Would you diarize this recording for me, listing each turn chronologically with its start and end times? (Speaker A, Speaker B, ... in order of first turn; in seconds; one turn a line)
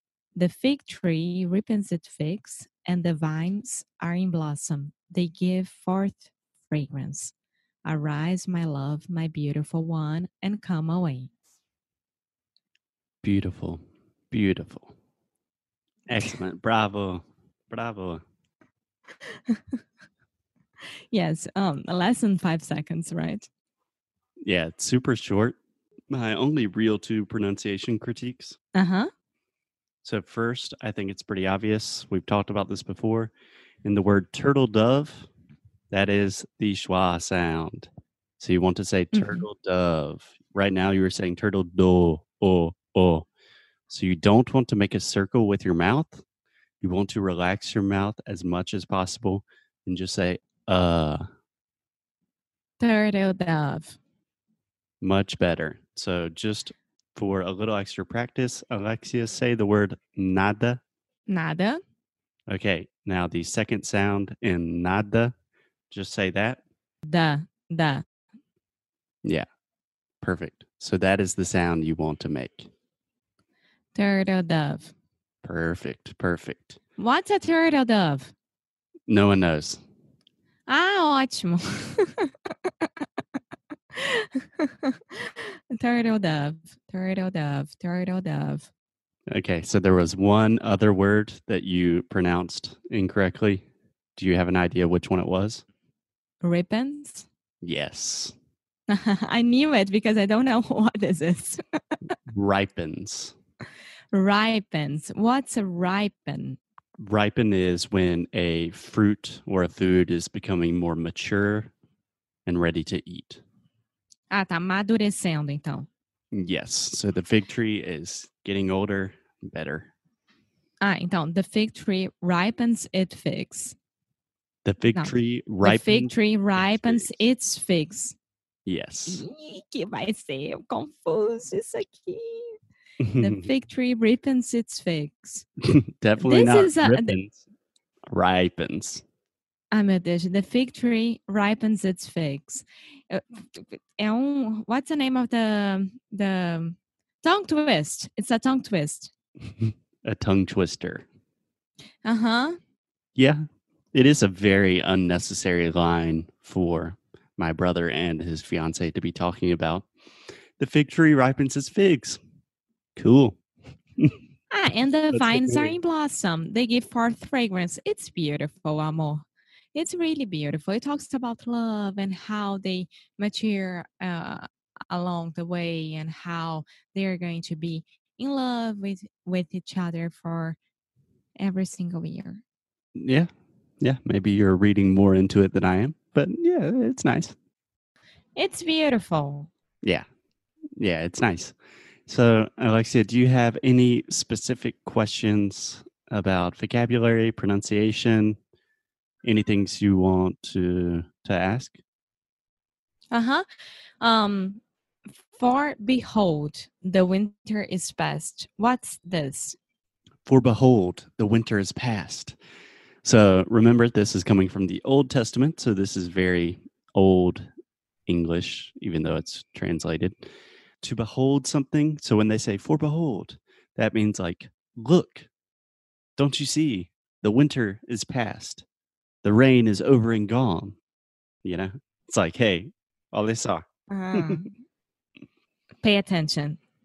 Speaker A: 0.3-7.3
Speaker A: 7.8-11.3
Speaker B: 13.2-14.9
Speaker B: 16.1-18.2
Speaker A: 21.1-23.5
Speaker B: 24.4-25.6
Speaker B: 26.1-28.6
Speaker A: 28.7-29.1
Speaker B: 30.0-33.3
Speaker B: 33.9-35.3
Speaker B: 35.9-43.3
Speaker A: 39.1-39.5
Speaker B: 43.9-46.2
Speaker B: 46.8-51.2
Speaker A: 52.8-54.0
Speaker B: 55.0-60.8
Speaker A: 61.3-61.8
Speaker B: 62.5-65.3
Speaker B: 65.9-66.6
Speaker A: 67.1-68.0
Speaker B: 70.2-72.7
Speaker A: 73.9-74.9
Speaker B: 75.4-76.8
Speaker A: 77.0-78.3
Speaker B: 79.1-79.8
Speaker A: 80.7-82.3
Speaker A: 83.9-88.7
Speaker B: 89.3-95.6
Speaker A: 96.4-97.3
Speaker B: 97.6-98.4
Speaker A: 98.9-101.6
Speaker B: 102.3-103.3
Speaker A: 104.1-106.6
Speaker B: 107.0-111.7
Speaker B: 112.5-113.4
Speaker A: 114.3-115.9
Speaker B: 116.3-119.9
Speaker A: 120.8-123.8
Speaker B: 124.7-127.2
Speaker A: 125.0-128.2
Speaker B: 128.7-129.2
Speaker A: 129.1-132.6
Speaker B: 133.0-133.4
Speaker A: 133.2-135.5
Speaker B: 135.7-137.4
Speaker A: 136.2-137.1
Speaker B: 138.1-139.0
Speaker A: 139.7-149.1
Speaker B: 149.6-151.1
Speaker A: 152.1-152.6
Speaker B: 153.2-159.9
Speaker B: 160.6-162.2
Speaker B: 163.0-163.4
Speaker A: 164.5-180.6
Speaker B: 165.1-165.8
Speaker A: 181.4-182.4
Speaker B: 182.9-183.3
Speaker B: 183.8-187.3
Speaker A: 188.4-189.5
Speaker B: 190.8-191.6
Speaker B: 192.1-198.4
Speaker B: 199.2-201.8
Speaker A: 203.1-203.4
Speaker A: 204.0-204.6
Speaker A: 205.3-209.6
Speaker B: 210.3-212.4
Speaker B: 213.0-217.5
Speaker B: 218.1-220.2
Speaker B: 220.8-225.3
Speaker B: 226.2-228.7
Speaker B: 229.2-230.8
Speaker B: 231.4-234.4
Speaker A: 233.9-234.5
Speaker A: 235.8-236.6